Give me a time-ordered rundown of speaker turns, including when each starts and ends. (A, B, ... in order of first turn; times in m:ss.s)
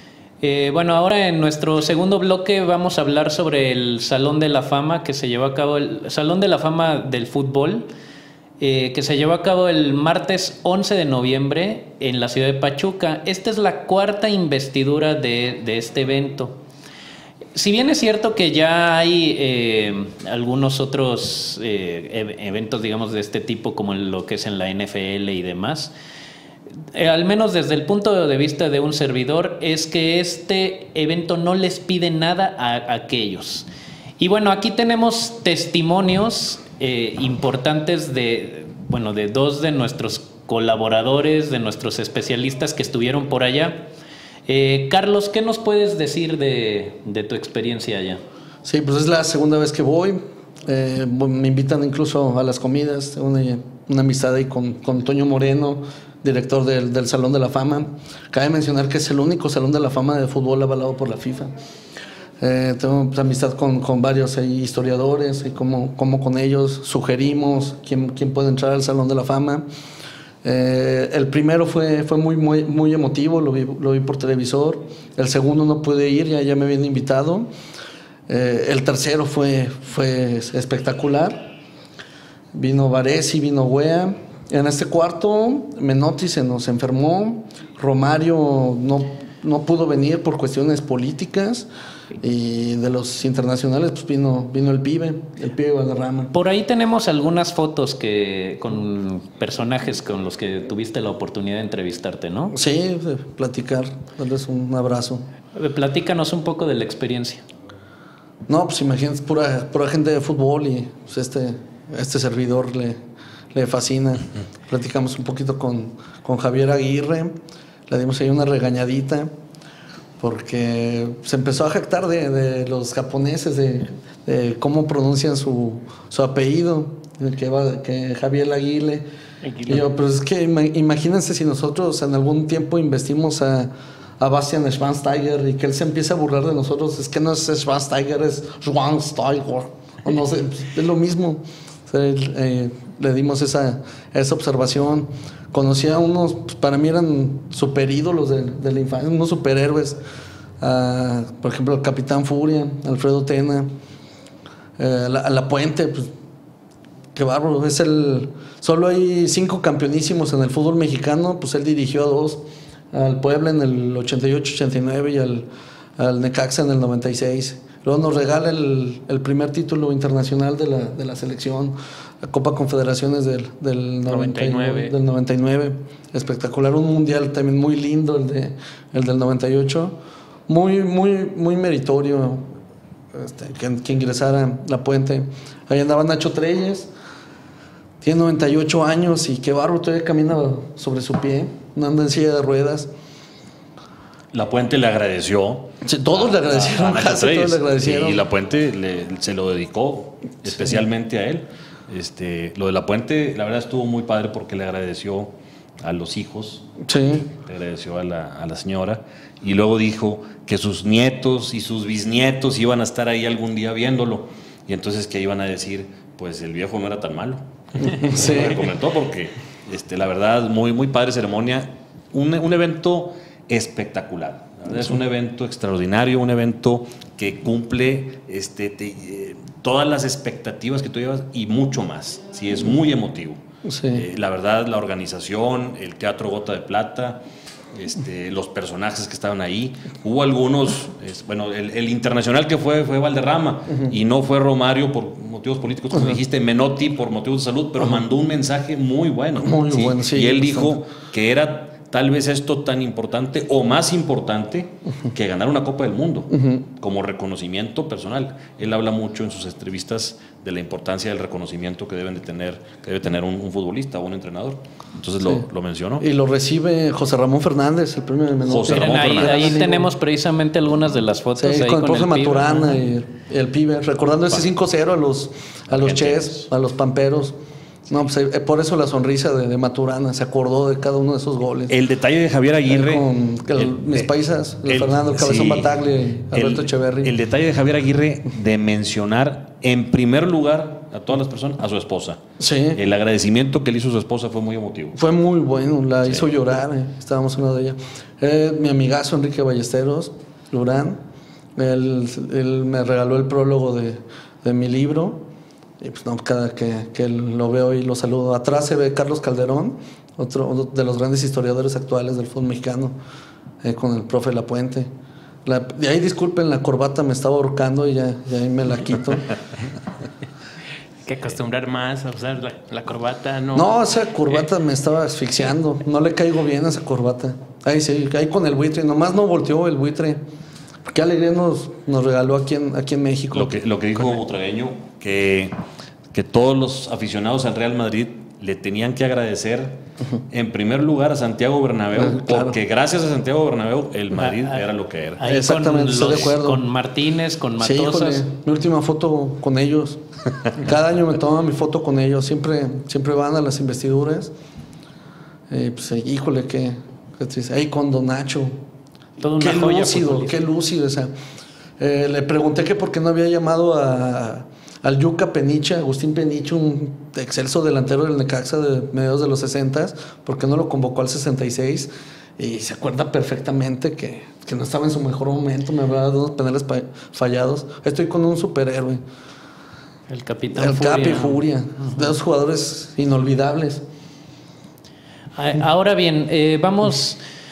0:00.4-0:07.9 A
0:08.6-0:16.6 A
0:17.6-0:25.9 A
0:26.9-0:33.7 A
0:34.2-0:43.8 A
0:44.5-0:48.2 A
0:48.6-1:01.5 B
1:02.4-1:09.7 B
1:10.4-1:17.5 B
1:18.3-1:21.5 B
1:22.5-1:31.7 B
1:32.2-1:36.3 B
1:36.3-1:42.5 A
1:42.5-1:45.2 B
1:45.6-1:47.4 A
1:48.5-1:53.0 B
1:53.5-1:57.3 B
1:57.9-1:59.3 B
2:00.2-2:09.0 B
2:09.4-2:09.8 C
2:09.7-2:30.0 B
2:30.6-2:33.7 B
2:34.8-2:36.1 B
2:37.2-2:42.4 B
2:42.9-3:00.0 B
2:54.1-2:54.9 C
3:00.5-3:02.5 B
3:03.1-3:06.9 B
3:08.0-3:12.9 B
3:14.3-3:53.4 D
3:15.8-3:18.2 B
3:26.8-3:27.3 B
3:37.8-3:38.7 B
3:53.6-3:54.0 B
3:53.9-3:57.2 D
3:57.7-4:26.0 D
4:05.9-4:06.2 B
4:09.4-4:10.8 B
4:16.3-4:16.6 B
4:26.0-4:29.9 B
4:28.5-4:29.5 D
4:28.7-4:32.8 A
4:31.4-4:37.4 B
4:35.7-4:36.4 D
4:37.9-4:41.7 B
4:41.7-4:43.0 D
4:42.7-4:47.2 B
4:43.6-4:44.1 D
4:44.7-4:45.7 D
4:46.3-4:52.2 D
4:52.4-4:52.8 B
4:52.8-4:55.0 D
4:55.0-5:01.0 B
5:01.6-5:05.2 B
5:05.8-5:13.0 B
5:13.6-5:14.9 B
5:15.4-5:19.3 B
5:21.0-5:23.8 C
5:23.5-5:30.2 B
5:30.9-5:33.6 B
5:33.3-5:35.5 D
5:36.1-5:39.8 D
5:40.3-5:45.2 D
5:41.9-5:42.6 B
5:44.2-5:44.6 A
5:45.2-5:48.2 A
5:45.2-5:46.6 B
5:46.0-5:46.3 D
5:47.6-5:50.0 B
5:50.6-5:54.3 B
5:55.5-5:58.5 B
5:59.2-6:00.4 A
5:59.4-6:01.1 B
6:01.8-6:19.0 B
6:20.1-6:21.4 A
6:20.5-6:23.8 B
6:25.4-6:27.2 A